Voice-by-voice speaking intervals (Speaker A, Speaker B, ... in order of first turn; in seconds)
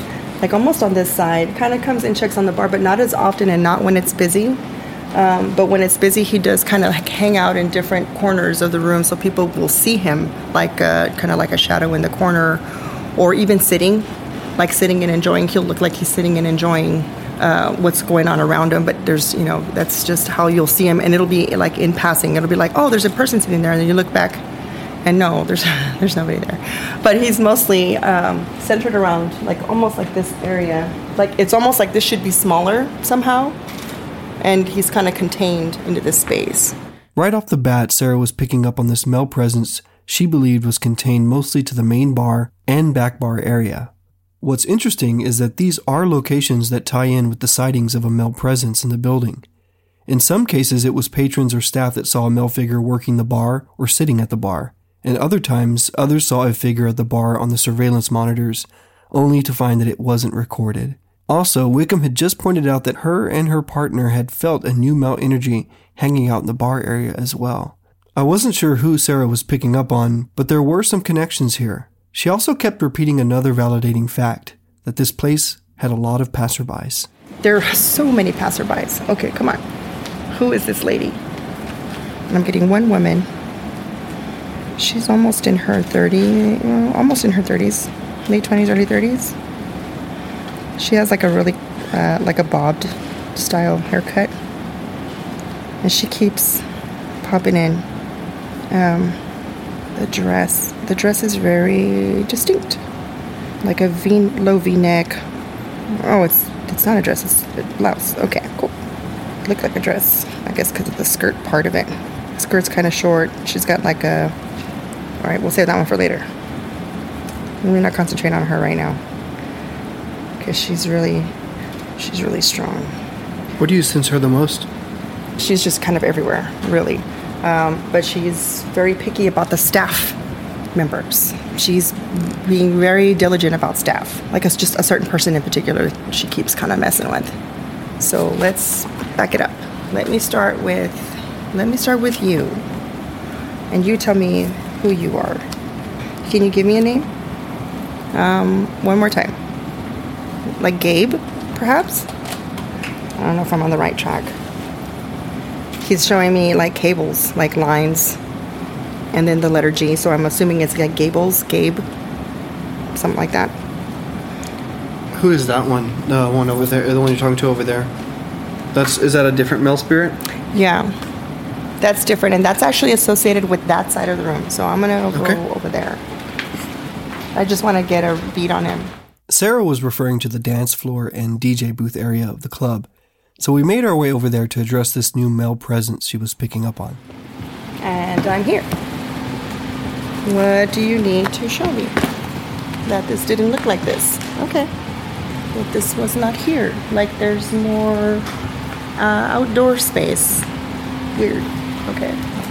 Speaker A: 0.4-24.4, 25.0-33.6, 34.4-36.8, 77.4-79.6, 80.3-81.2, 82.3-83.3, 84.8-89.4, 90.8-94.3, 95.8-96.7, 97.2-97.9, 98.7-99.2, 100.0-102.8, 103.6-105.2, 105.9-108.8, 109.4-114.4, 115.2-116.3, 117.6-119.0, 120.4-121.3, 122.0-122.9, 125.4-130.2, 130.7-137.3, 138.0-142.7, 143.7-145.5, 146.2-147.1, 148.1-149.4, 150.6-152.1, 153.2-154.4, 155.8-158.2, 159.1-161.9, 162.9-163.6, 170.5-171.0, 171.8-176.0, 177.3-178.9, 187.8-188.7, 190.2-192.0, 192.8-194.7, 195.5-198.3, 199.0-200.5, 201.2-202.2
Speaker B: 37.2-49.5, 50.1-77.1, 123.6-124.7, 165.1-167.9, 168.7-170.2, 175.1-175.4, 179.3-187.0